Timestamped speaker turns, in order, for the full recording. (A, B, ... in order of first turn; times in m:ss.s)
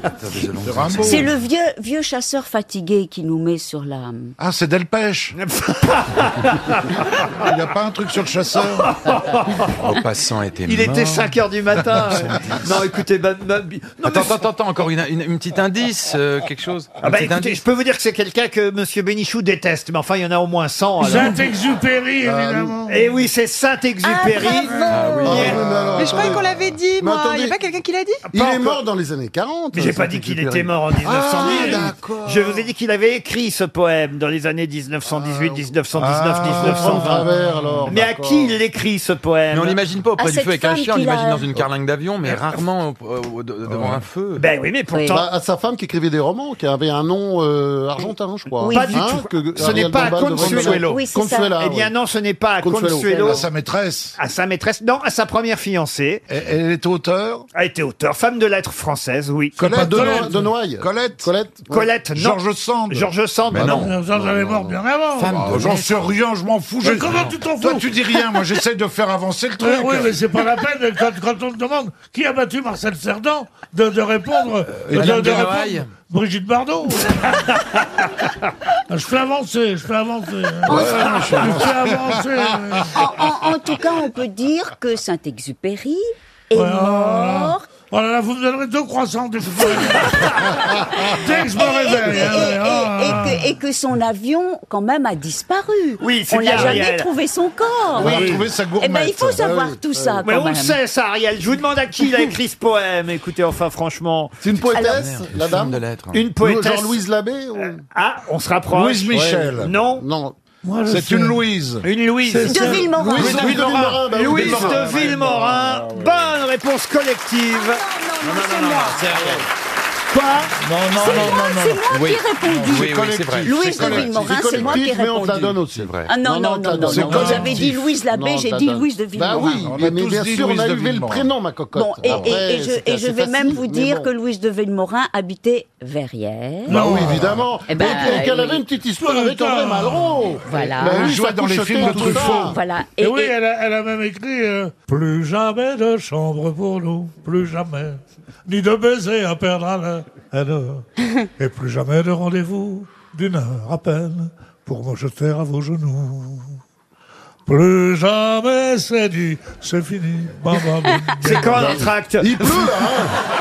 0:00.2-0:01.2 A
0:00.6-0:01.3 B
0:01.0-0:04.3 C
0:04.4-0:05.4 B
0:05.4-0:06.9 D
0:07.4-0:08.9 B
0:08.8-0:09.7 D
0:09.8-0:11.3 A
0:10.6-0:14.4 D
0:14.0-0:17.6 A
0:17.0-0:21.4 D
0:21.0-0:23.1 E
0:22.2-0:22.8 F
0:22.9-0:25.6 D
0:24.9-0:25.5 A
0:25.2-0:27.6 F
0:25.9-0:28.2 G
0:28.3-0:28.8 D
0:28.3-0:32.1 F
0:29.7-0:37.3 D
0:31.0-0:32.0 B
0:35.9-0:38.1 B
0:36.4-0:38.5 F
0:37.9-0:39.8 D
0:39.5-0:44.4 A
0:40.2-0:41.5 C
0:43.7-0:44.0 B
0:44.4-0:45.2 D
0:45.1-0:51.9 F
0:48.6-0:49.2 C
0:48.7-0:51.0 D
0:49.9-0:51.5 C
0:51.6-0:53.4 D
0:52.6-0:53.5 F
0:53.0-0:53.3 C
0:53.2-0:54.2 B
0:54.2-0:56.2 D
0:56.3-0:57.4 B
0:57.5-0:59.6 D
0:59.6-1:01.3 B
0:59.7-1:01.9 F
0:59.7-1:00.4 E
1:01.7-1:03.9 D
1:02.1-1:10.2 B
1:03.6-1:05.5 E
1:05.2-1:06.0 A
1:06.8-1:08.0 E
1:09.6-1:17.5 E
1:14.8-1:15.9 A
1:14.9-1:15.4 B
1:18.9-1:22.9 E
1:20.7-1:22.4 B
1:20.7-1:21.2 C
1:22.9-1:27.6 C
1:26.5-1:30.5 E
1:31.1-1:33.4 E
1:31.5-1:40.8 C
1:36.0-1:37.1 D
1:36.5-1:36.8 B
1:37.9-1:39.8 B
1:38.0-1:38.5 F
1:39.4-1:40.2 F
1:40.2-1:44.4 D
1:44.4-1:45.8 F
1:44.7-1:45.0 C
1:44.9-1:46.2 A
1:46.1-1:47.0 D
1:46.4-1:47.8 F
1:47.9-1:50.0 D
1:48.7-1:49.7 B
1:49.1-1:50.4 F
1:50.6-1:51.5 E
1:50.9-1:51.9 B
1:51.8-1:57.8 D
1:52.2-1:54.0 E
1:52.5-1:53.5 C
1:52.9-1:56.4 B
1:53.2-1:55.1 F
1:57.5-1:59.2 C
2:00.1-2:05.5 C
2:00.6-2:04.4 B
2:01.1-2:01.4 A
2:01.9-2:03.5 A
2:03.6-2:14.1 F
2:05.7-2:06.1 A
2:06.0-2:09.7 C
2:06.8-2:07.8 B
2:09.5-2:11.3 B
2:11.7-2:17.0 C
2:12.1-2:12.4 B
2:16.7-2:17.3 E
2:16.7-2:22.6 F
2:16.9-2:17.3 B
2:17.7-2:18.6 C
2:19.0-2:20.3 E
2:20.5-2:21.2 C
2:20.8-2:22.6 B
2:21.8-2:22.4 E
2:22.0-2:23.3 C
2:23.0-2:30.8 E
2:31.4-2:36.6 E
2:37.5-2:41.8 E
2:41.2-2:42.7 D
2:41.5-2:43.1 F